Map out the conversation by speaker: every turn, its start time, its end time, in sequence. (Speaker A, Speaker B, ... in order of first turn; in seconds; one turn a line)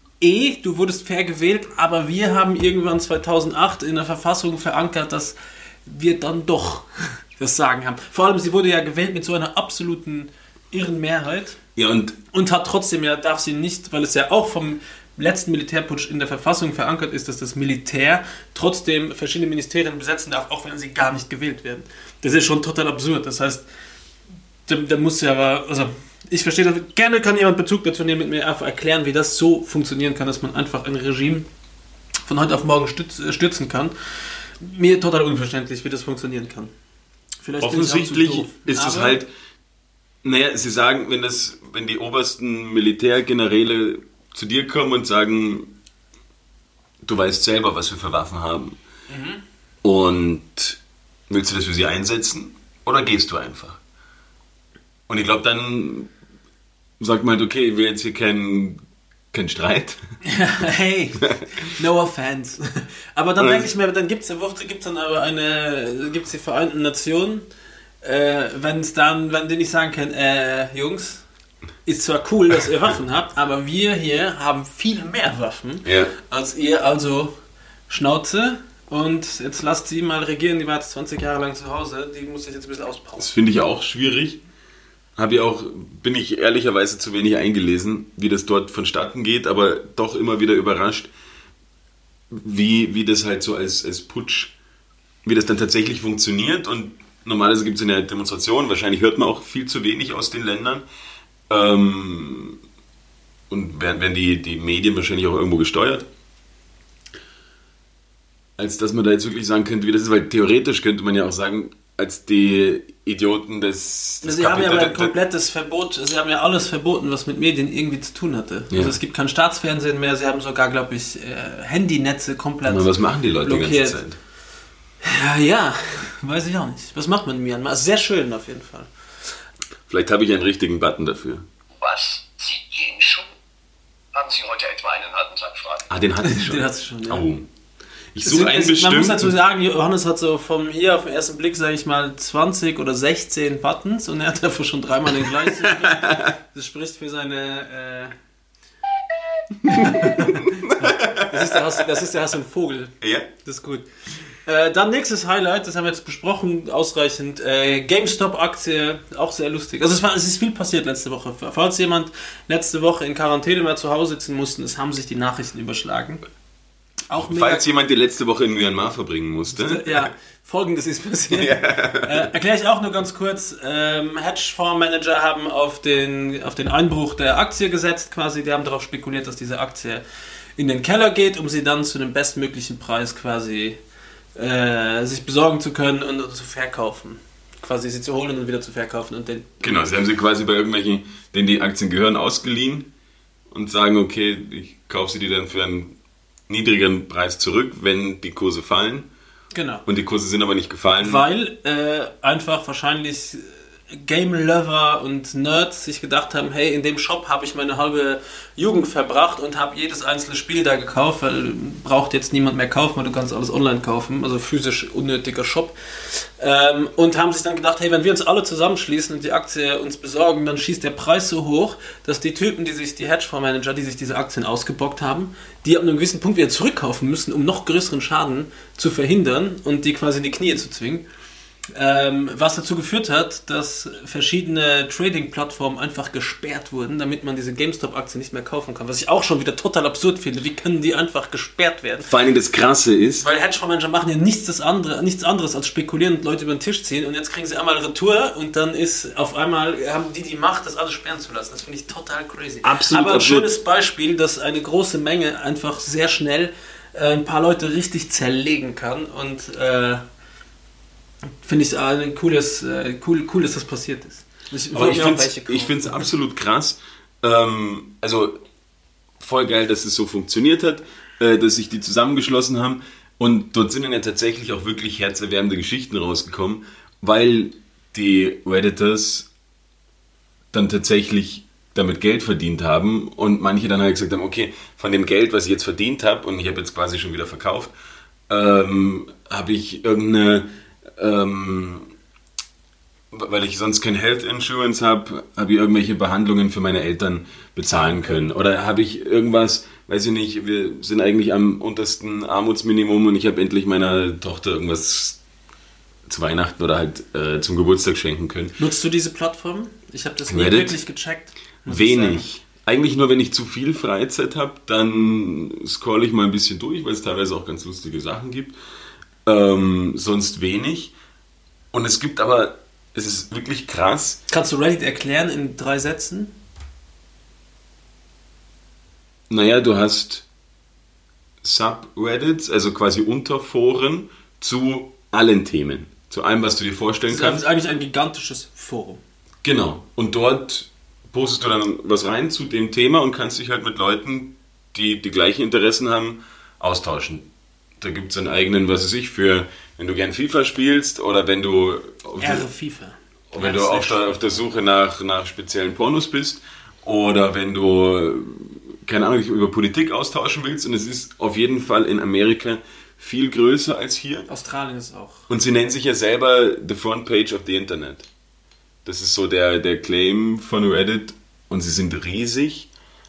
Speaker A: 0.2-11.6
Speaker B: 11.8-12.2
Speaker A: 12.3-23.6
Speaker A: 24.7-31.5
Speaker A: 32.3-36.7
Speaker A: 37.4-39.2
Speaker B: 37.6-39.3
Speaker B: 40.2-45.7
Speaker B: 47.0-48.8
Speaker A: 49.1-49.4
Speaker B: 49.8-53.8
Speaker B: 55.1-56.1
Speaker B: 57.0-60.0
Speaker A: 60.2-67.5
Speaker B: 63.4-63.7
Speaker A: 68.0-71.2
Speaker A: 71.8-77.4
Speaker B: 75.8-76.1
Speaker A: 77.9-83.3
Speaker B: 83.2-84.4
Speaker B: 85.2-91.1
Speaker B: 92.3-94.5
Speaker B: 95.2-100.8
Speaker B: 101.5-102.6
Speaker B: 103.5-106.1
Speaker B: 108.6-115.1
Speaker A: 114.2-122.9
Speaker B: 122.7-124.2
Speaker A: 123.4-124.0
Speaker A: 125.0-128.9
Speaker B: 129.9-131.5
Speaker C: 131.8-133.3
Speaker C: 134.1-135.9
Speaker B: 135.9-137.5
Speaker A: 136.2-137.3
Speaker B: 138.1-139.3
Speaker A: 138.2-148.2
Speaker B: 145.7-146.2
Speaker A: 149.7-166.2
Speaker B: 149.7-151.7
Speaker B: 153.0-153.3
Speaker A: 167.1-167.6
Speaker B: 167.2-170.1
Speaker A: 169.6-180.0
Speaker B: 171.3-172.3
Speaker A: 180.6-183.8
Speaker A: 184.4-189.7
Speaker B: 189.6-192.9
Speaker B: 193.5-196.0
Speaker B: 196.5-199.1
Speaker A: 199.5-199.8
Speaker B: 199.9-201.2
Speaker A: 201.0-231.1
Speaker A: 231.8-242.1
Speaker B: 242.1-243.2
Speaker A: 243.2-260.0
Speaker B: 252.6-253.5
Speaker A: 261.4-266.1
Speaker B: 264.7-268.4
Speaker B: 269.2-279.3
Speaker B: 280.5-287.7
Speaker B: 288.3-291.9
Speaker B: 293.1-305.2
Speaker A: 297.7-298.3
Speaker B: 306.1-308.6
Speaker A: 308.6-312.2
Speaker B: 310.3-310.8
Speaker B: 311.7-318.6
Speaker B: 319.2-320.9
Speaker B: 321.7-324.2
Speaker A: 324.3-326.4
Speaker B: 329.3-330.3
Speaker B: 331.4-337.4
Speaker A: 337.1-339.0
Speaker B: 339.4-352.5
Speaker A: 352.2-354.4
Speaker B: 353.3-364.3
Speaker A: 364.3-365.2
Speaker B: 365.3-368.1
Speaker B: 368.9-372.7